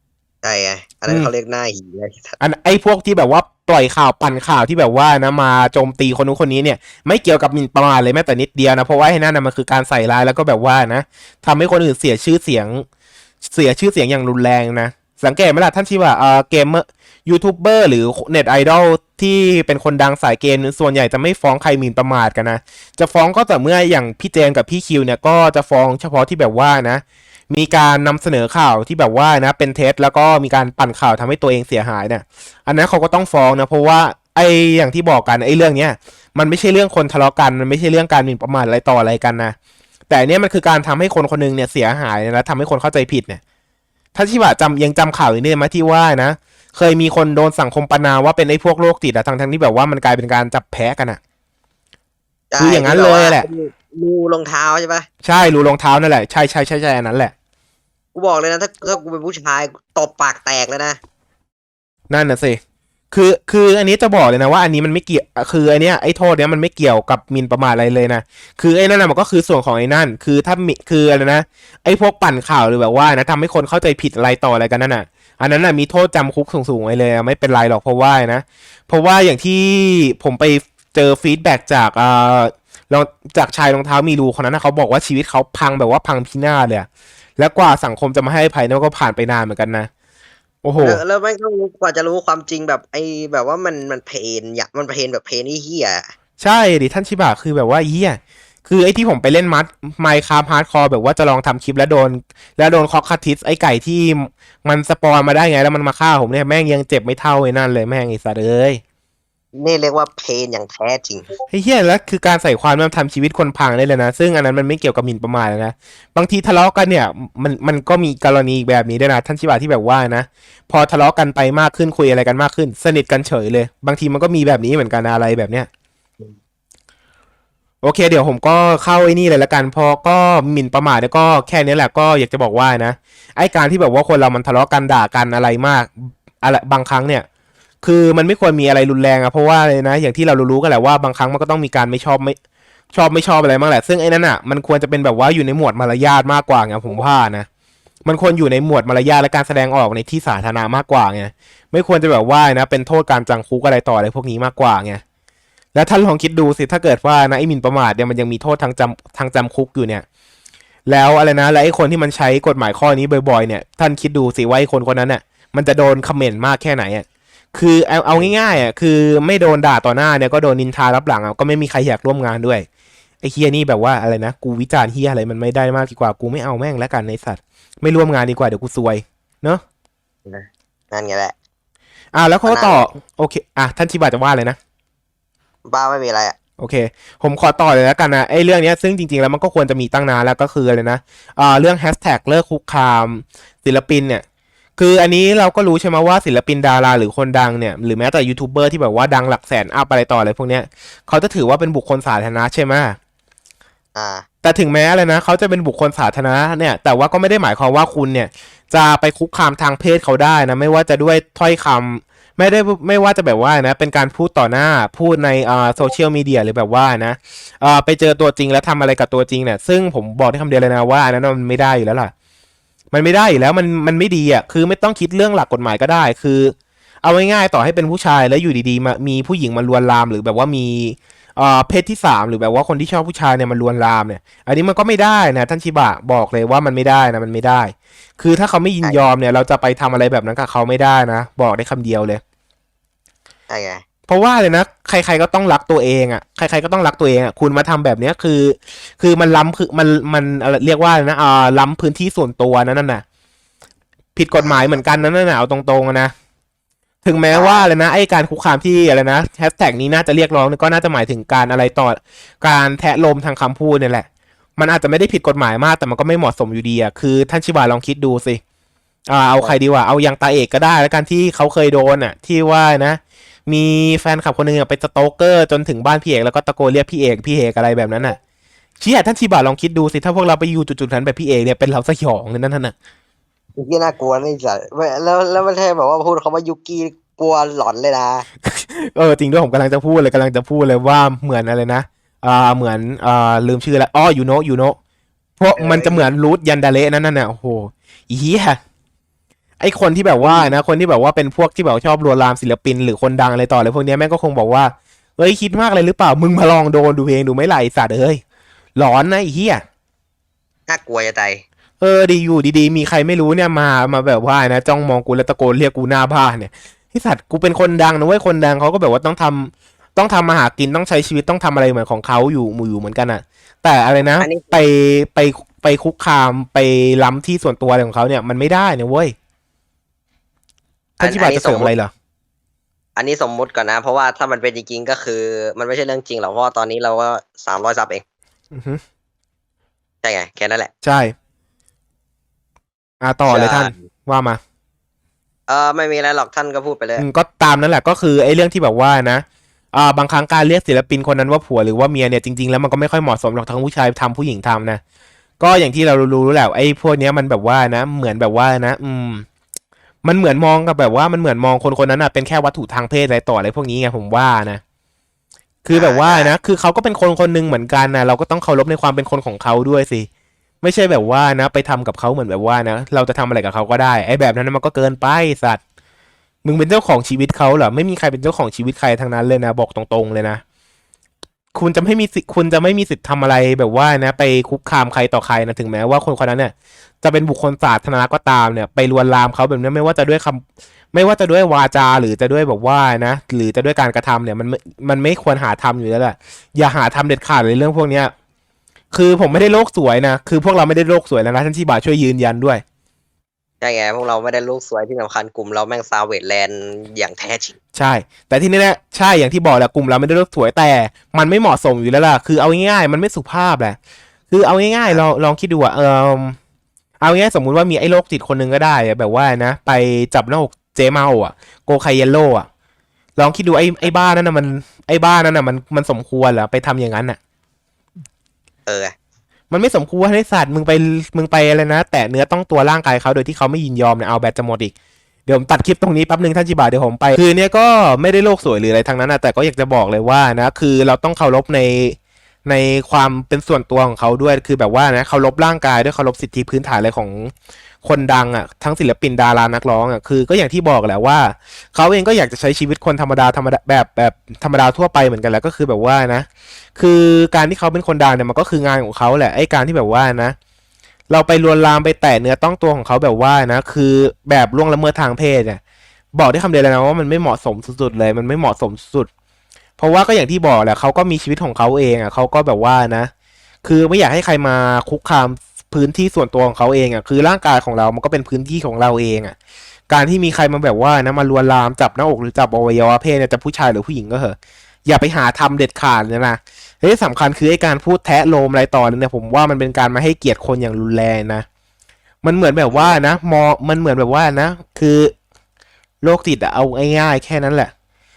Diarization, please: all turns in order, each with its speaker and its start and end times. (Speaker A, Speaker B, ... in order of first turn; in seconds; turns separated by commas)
Speaker A: 0.4-2.4, Speaker B: 2.4-12.8, Speaker B: 13.4-39.5, Speaker B: 40.1-43.4, Speaker B: 44.1-51.2, Speaker A: 52.5-55.1, Speaker B: 52.6-53.5, Speaker B: 55.2-57.3, Speaker A: 58.1-61.0, Speaker B: 62.1-62.6, Speaker B: 63.1-86.9, Speaker B: 87.4-89.9, Speaker B: 90.6-91.0, Speaker A: 90.8-96.1, Speaker B: 96.4-108.8, Speaker A: 109.5-111.3, Speaker B: 111.5-125.7, Speaker B: 127.8-137.2, Speaker B: 137.8-142.3, Speaker B: 142.9-147.5, Speaker B: 148.1-155.0, Speaker B: 155.7-160.0, Speaker B: 160.9-172.7, Speaker B: 173.2-179.6, Speaker A: 180.2-181.3, Speaker B: 182.1-184.6, Speaker A: 182.4-182.9, Speaker A: 185.7-186.3, Speaker B: 186.6-194.2, Speaker B: 194.8-203.0, Speaker A: 203.9-204.2, Speaker B: 204.4-222.1, Speaker B: 222.9-242.2, Speaker A: 243.5-243.8, Speaker B: 244.1-253.0, Speaker B: 254.2-256.1, Speaker A: 254.4-254.8, Speaker B: 257.0-268.4, Speaker A: 257.3-257.6, Speaker B: 269.1-278.2, Speaker B: 278.8-282.7, Speaker A: 283.6-288.2, Speaker B: 288.4-294.8, Speaker B: 295.4-298.6, Speaker A: 295.6-296.1, Speaker B: 299.6-308.2, Speaker A: 300.2-300.5, Speaker B: 308.8-309.6, Speaker A: 310.7-311.4, Speaker B: 311.8-329.1, Speaker A: 324.2-324.5, Speaker B: 331.0-331.9, Speaker A: 331.0-331.7, Speaker A: 332.9-338.0, Speaker B: 338.5-338.8, Speaker A: 340.0-340.7, Speaker B: 340.8-341.1, Speaker B: 343.0-344.4, Speaker A: 343.3-343.7, Speaker A: 345.5-347.0, Speaker B: 347.0-354.8, Speaker B: 355.4-359.2, Speaker B: 360.0-364.6, Speaker B: 365.6-370.1, Speaker A: 365.7-366.3, Speaker B: 370.6-375.6, Speaker B: 376.4-380.4, Speaker B: 381.5-390.4, Speaker B: 390.9-398.1, Speaker B: 398.9-402.6, Speaker A: 403.6-407.5, Speaker B: 407.7-413.8, Speaker B: 414.3-416.4, Speaker B: 417.0-422.5, Speaker B: 423.2-427.2, Speaker A: 428.7-428.9, Speaker B: 429.5-434.7, Speaker B: 435.3-447.3, Speaker B: 447.8-460.4, Speaker B: 461.1-465.6, Speaker B: 466.1-469.1, Speaker B: 469.8-473.1, Speaker B: 473.6-479.3, Speaker B: 479.9-491.4, Speaker B: 492.2-495.1, Speaker A: 492.7-493.0, Speaker B: 496.0-497.7